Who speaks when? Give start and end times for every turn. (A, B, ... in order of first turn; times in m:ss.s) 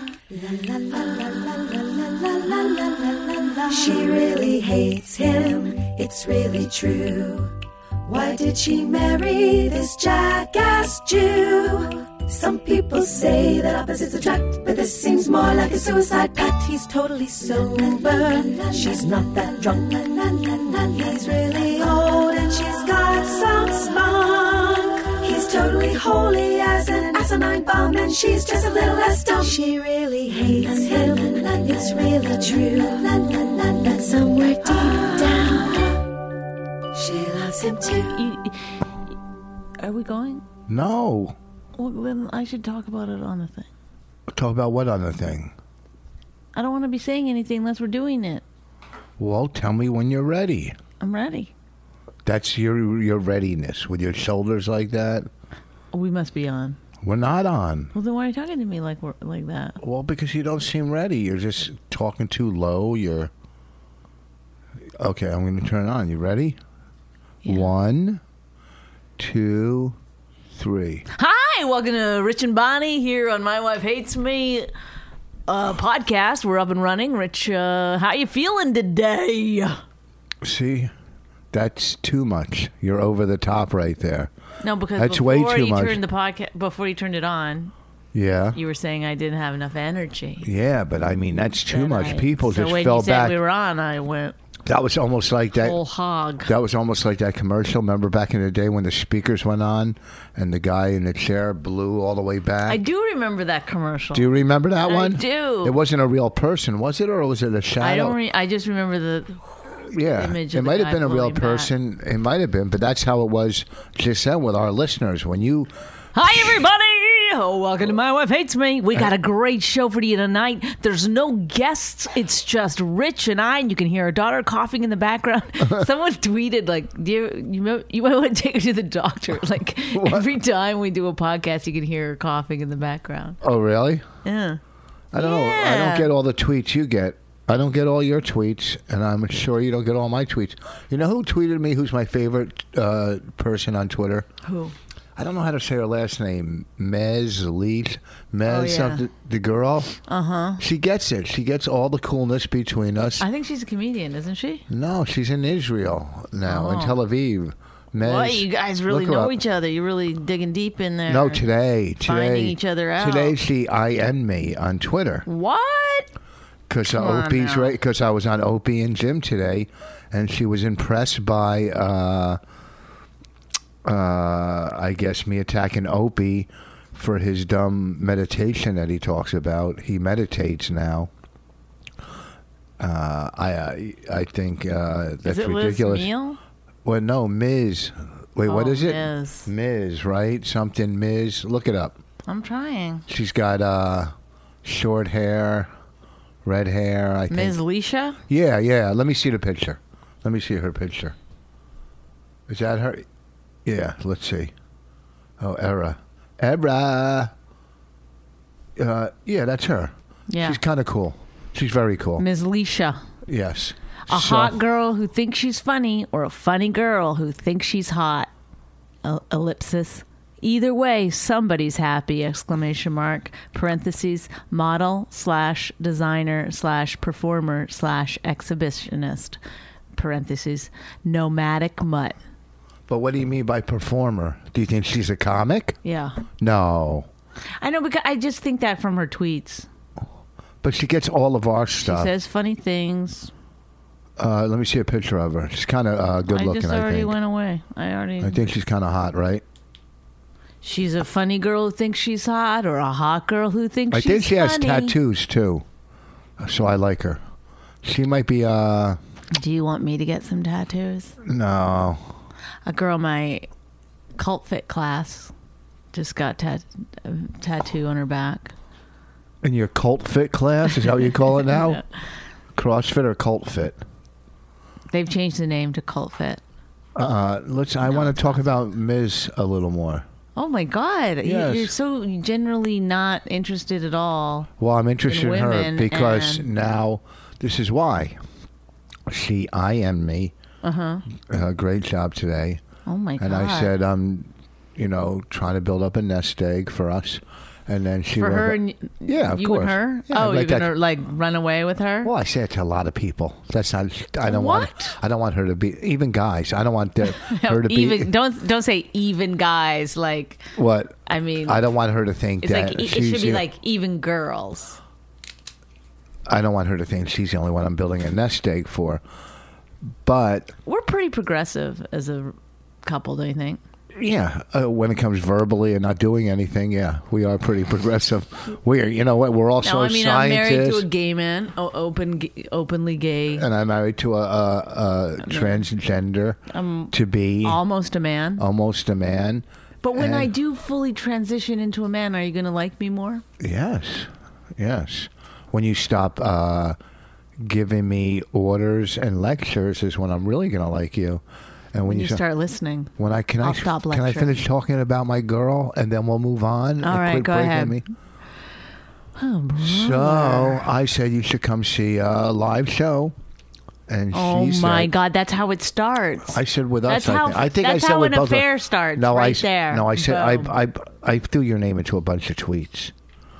0:00.3-0:07.5 A
0:08.0-0:36.0 A
0:36.9-0:38.2 A
0:38.1-0:38.6 B
0:39.8-0:40.4 B
0:40.7-0:41.4 C
0:41.8-0:43.7 B
0:44.3-0:45.5 C
0:46.5-0:48.4 B
0:49.2-0:50.7 C
0:51.0-0:51.5 B
0:52.2-0:55.3 C
0:55.9-0:56.8 B
0:57.0-0:57.9 C
0:57.9-0:59.8 B
0:59.8-1:03.3 C
1:05.0-1:06.6 C
1:07.4-1:08.2 C
1:09.2-1:10.0 C
1:10.5-1:11.0 C
1:11.1-1:14.7 B
1:15.5-1:19.8 B
1:20.4-1:20.9 C
1:21.5-1:24.3 C
1:24.6-1:27.7 B
1:25.0-1:26.0 C
1:28.1-1:28.6 C
1:28.5-1:30.5 B
1:30.4-1:33.4 C
1:31.7-1:34.3 B
1:34.6-1:35.8 C
1:35.6-1:36.5 B
1:36.4-1:42.8 C
1:42.6-1:44.3 B
1:44.1-1:48.2 C
1:44.8-1:45.8 B
1:47.8-1:51.7 B
1:49.9-1:55.7 C
1:56.1-2:13.4 B
2:09.9-2:10.3 C
2:13.4-2:14.0 C
2:14.2-2:14.6 B
2:15.1-2:24.3 C
2:15.1-2:16.1 B
2:24.4-2:24.7 B
2:25.2-2:30.0 C
2:28.4-2:29.0 B
2:30.1-2:30.6 B
2:30.6-2:33.2 C
2:33.2-2:34.6 B
2:34.7-2:39.3 C
2:36.4-2:37.0 B
2:38.0-2:41.4 B
2:41.1-2:45.2 C
2:42.0-2:43.4 B
2:45.2-2:46.1 B
2:46.7-2:52.4 C
2:46.9-2:47.7 B
2:53.8-3:01.1 C
3:02.8-3:06.1 C
3:05.2-3:06.4 B
3:06.8-3:12.0 C
3:08.5-3:09.5 B
3:12.3-3:13.0 B
3:13.1-3:14.1 C
3:14.6-3:15.7 C
3:16.4-3:17.6 C
3:17.3-3:18.2 B
3:18.3-3:21.1 C
3:22.5-3:23.0 C
3:23.6-3:24.5 C
3:25.4-3:27.3 C
3:28.8-3:32.2 C
3:30.3-3:30.6 B
3:32.2-3:33.0 B
3:33.2-3:34.6 C
3:34.1-3:38.3 B
3:39.0-3:49.4 B
3:49.9-3:52.2 B
3:52.9-3:55.8 C
3:55.8-3:56.2 B
3:56.4-3:57.1 C
3:57.6-3:59.7 B
4:00.6-4:02.1 C
4:01.8-4:03.3 B
4:04.2-4:07.1 C
4:06.3-4:08.4 B
4:08.2-4:09.4 C
4:10.6-4:14.9 B
4:13.9-4:15.6 C
4:16.4-4:17.2 C
4:17.8-4:19.0 C
4:19.4-4:21.2 B
4:21.2-4:22.0 C
4:22.6-4:23.5 B
4:24.2-4:25.3 B
4:25.9-4:28.5 B
4:29.4-4:31.8 C
4:31.4-4:31.7 B
4:32.5-4:33.8 C
4:34.9-4:36.4 B
4:37.0-4:40.0 C
4:37.9-4:38.4 B
4:40.4-4:44.5 B
4:41.2-4:41.7 C
4:44.6-4:48.2 C
4:45.0-4:46.5 B
4:49.1-4:50.3 C
4:50.6-4:51.0 B
4:51.1-4:52.6 C
4:52.8-4:53.7 B
4:53.2-5:00.7 C
4:58.2-5:02.1 B
5:02.0-5:08.1 C
5:04.2-5:05.0 B
5:07.0-5:10.5 B
5:10.6-5:13.4 C
5:11.1-5:11.6 B
5:12.4-5:14.8 B
5:16.3-5:19.0 C
5:20.0-5:20.5 C
5:20.6-5:23.6 B
5:23.9-5:30.9 C
5:29.6-5:33.4 B
5:33.3-5:36.4 C
5:35.2-5:35.6 B
5:36.5-5:38.4 B
5:36.9-5:37.6 C
5:38.4-5:40.3 C
5:39.8-5:43.2 B
5:43.4-5:46.8 C
5:47.4-5:52.2 C
5:51.8-5:54.3 B
5:53.0-5:57.8 C
5:56.8-5:57.8 B
5:59.2-6:00.6 B
5:59.6-6:03.1 C
6:03.9-6:04.9 C
6:04.1-6:10.5 B
6:06.3-6:12.9 C